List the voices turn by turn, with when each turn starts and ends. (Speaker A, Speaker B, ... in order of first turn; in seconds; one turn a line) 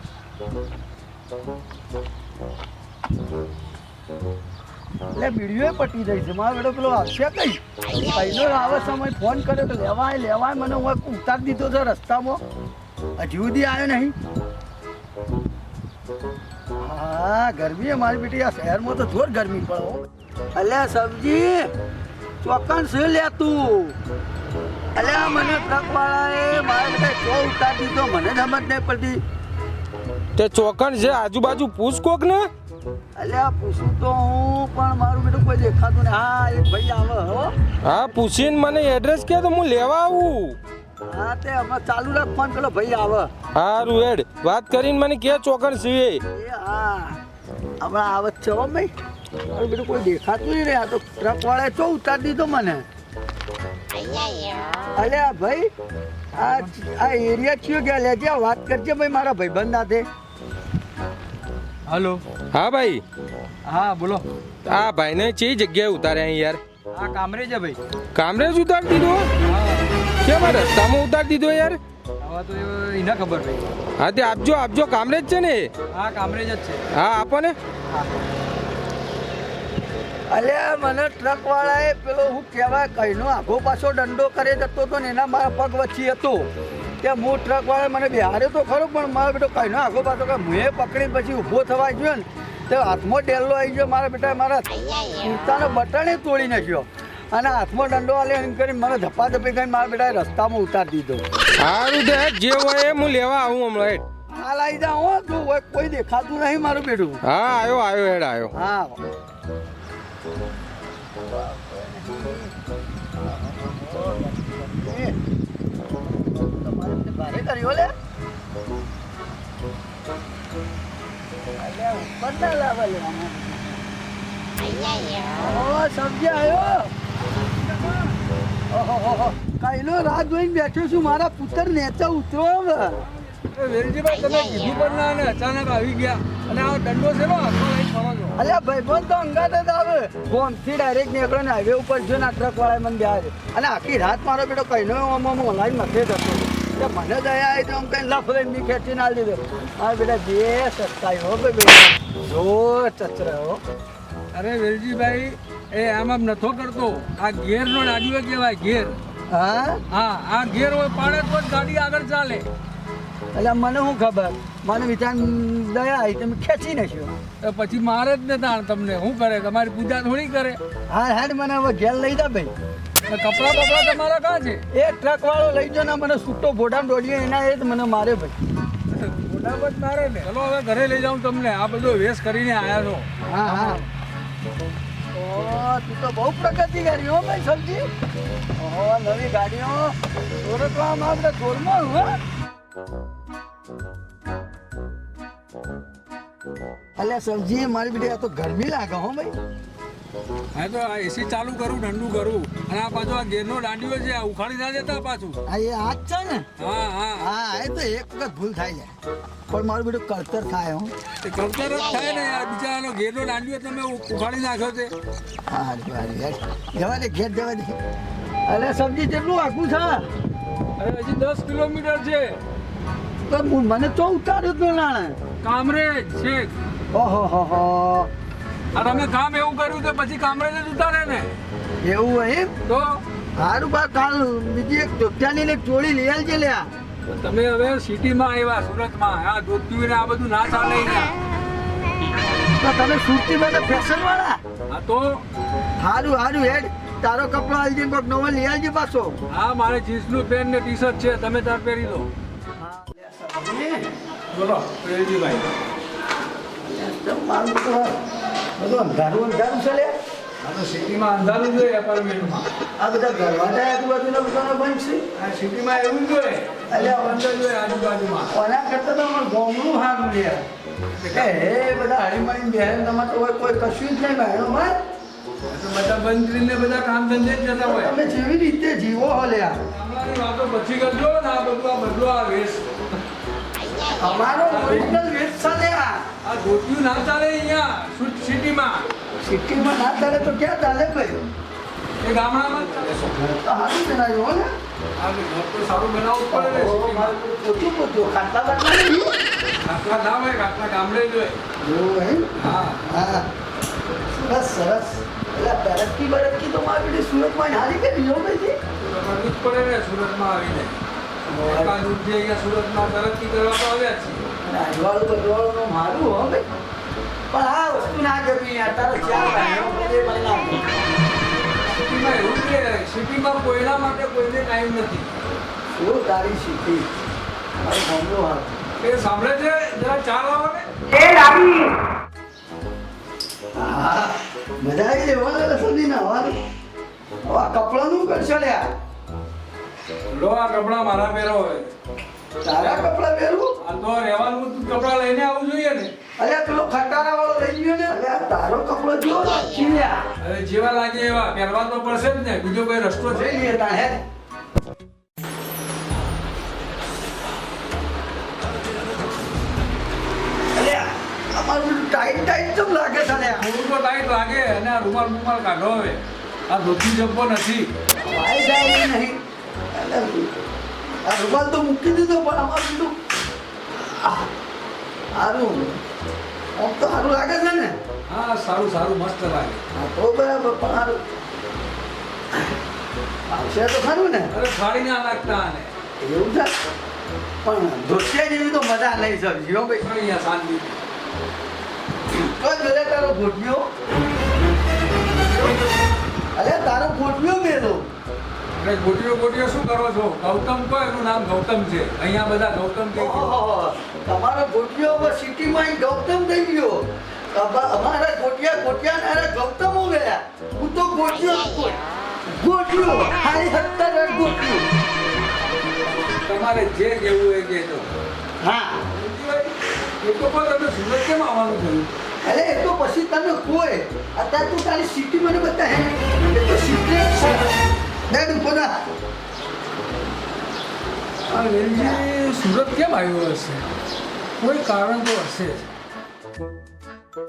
Speaker A: 5.1-12.4
Speaker A: 13.2-14.1
Speaker A: 16.8-21.7
Speaker A: 22.4-23.9
Speaker A: 24.9-29.2
Speaker B: 30.4-32.5
Speaker A: 33.1-37.5
Speaker B: 37.8-40.6
Speaker A: 41.1-43.3
Speaker B: 43.5-46.2
Speaker A: 46.3-47.2
Speaker A: 47.8-48.9
Speaker A: 49.5-52.8
Speaker A: 55.0-55.7
Speaker A: 56.4-60.1
Speaker C: 56.4-56.7
Speaker C: 61.9-62.2
Speaker B: 62.5-63.0
Speaker C: 63.6-64.2
Speaker B: 64.6-66.6
Speaker C: 66.9-67.8
Speaker B: 68.1-69.3
Speaker C: 69.4-70.8
Speaker B: 70.2-71.8
Speaker C: 72.2-73.7
Speaker B: 74.0-75.7
Speaker C: 75.9-76.9
Speaker B: 76.9-77.5
Speaker A: 80.3-86.5
Speaker A: 87.0-101.2
Speaker B: 101.6-104.0
Speaker A: 104.3-107.2
Speaker B: 107.2-108.5
Speaker A: 108.5-109.0
Speaker A: 111.2-112.5
Speaker A: 113.2-115.2
Speaker A: 116.0-117.9
Speaker A: 121.6-123.8
Speaker A: 125.3-126.9
Speaker A: 128.7-133.0
Speaker C: 133.2-138.4
Speaker A: 138.4-153.6
Speaker C: 154.3-159.0
Speaker A: 159.3-159.8
Speaker C: 159.9-162.5
Speaker A: 163.3-167.1
Speaker C: 167.4-170.6
Speaker A: 170.9-172.5
Speaker C: 173.1-174.6
Speaker A: 174.7-178.3
Speaker C: 178.9-183.8
Speaker A: 183.3-183.8
Speaker A: 185.1-187.9
Speaker A: 188.6-192.2
Speaker A: 197.0-199.3
Speaker C: 200.5-205.4
Speaker A: 205.5-206.5
Speaker C: 206.6-207.3
Speaker A: 207.2-208.9
Speaker A: 209.5-210.9
Speaker C: 211.2-214.9
Speaker A: 215.5-217.8
Speaker A: 218.5-220.0
Speaker C: 220.8-222.3
Speaker A: 223.3-225.2
Speaker C: 225.4-226.5
Speaker A: 226.9-228.1
Speaker C: 228.7-231.3
Speaker A: 231.8-232.5
Speaker C: 232.7-233.0
Speaker A: 233.4-236.7
Speaker C: 237.1-241.2
Speaker A: 242.6-244.4
Speaker C: 244.7-245.2
Speaker A: 245.8-249.2
Speaker C: 249.3-252.1
Speaker A: 252.6-253.9
Speaker C: 254.3-255.5
Speaker A: 256.6-258.0
Speaker A: 258.6-259.9
Speaker C: 260.4-262.4
Speaker A: 262.8-265.0
Speaker C: 265.1-268.3
Speaker A: 266.7-267.2
Speaker A: 268.3-270.4
Speaker C: 270.9-271.4
Speaker A: 271.1-274.8
Speaker C: 275.5-278.0
Speaker A: 277.6-279.6
Speaker C: 279.7-282.7
Speaker A: 283.9-286.0
Speaker C: 284.4-285.0
Speaker C: 286.2-288.9
Speaker A: 289.2-291.3
Speaker C: 292.0-293.2
Speaker A: 292.9-294.5
Speaker C: 294.9-297.1
Speaker A: 296.3-299.1
Speaker C: 299.6-301.4
Speaker A: 301.6-302.3
Speaker C: 302.4-302.9
Speaker A: 302.8-303.3
Speaker A: 304.1-308.6
Speaker C: 308.9-310.8
Speaker A: 311.3-311.8
Speaker C: 311.4-314.2
Speaker A: 314.4-316.4
Speaker A: 317.3-320.7
Speaker C: 321.6-325.1
Speaker A: 325.7-326.9
Speaker A: 327.6-328.6
Speaker C: 328.8-330.7
Speaker A: 330.9-331.7
Speaker A: 333.6-336.4
Speaker A: 337.2-338.7
Speaker C: 340.1-341.7
Speaker A: 342.4-343.5
Speaker C: 342.6-342.9
Speaker C: 343.6-345.9
Speaker A: 346.2-350.1
Speaker C: 350.2-353.6
Speaker A: 353.1-354.0
Speaker A: 360.5-363.5
Speaker C: 363.4-367.7
Speaker A: 368.0-369.2
Speaker A: 369.7-370.3
Speaker A: 371.0-372.9
Speaker A: 373.8-374.2
Speaker A: 375.1-375.8
Speaker A: 376.6-377.8
Speaker C: 378.1-379.6
Speaker A: 379.7-381.0
Speaker A: 383.3-384.3
Speaker C: 384.3-385.7
Speaker A: 386.0-386.5
Speaker A: 387.4-389.8
Speaker C: 389.8-390.8
Speaker A: 392.1-393.7
Speaker C: 395.3-395.7
Speaker A: 396.3-397.9
Speaker C: 398.6-403.3
Speaker A: 402.9-414.6
Speaker C: 416.2-417.9
Speaker A: 418.4-418.8
Speaker C: 418.9-421.9
Speaker A: 422.2-427.5
Speaker A: 428.1-428.8
Speaker C: 431.3-433.6
Speaker A: 431.6-432.0
Speaker C: 434.4-435.7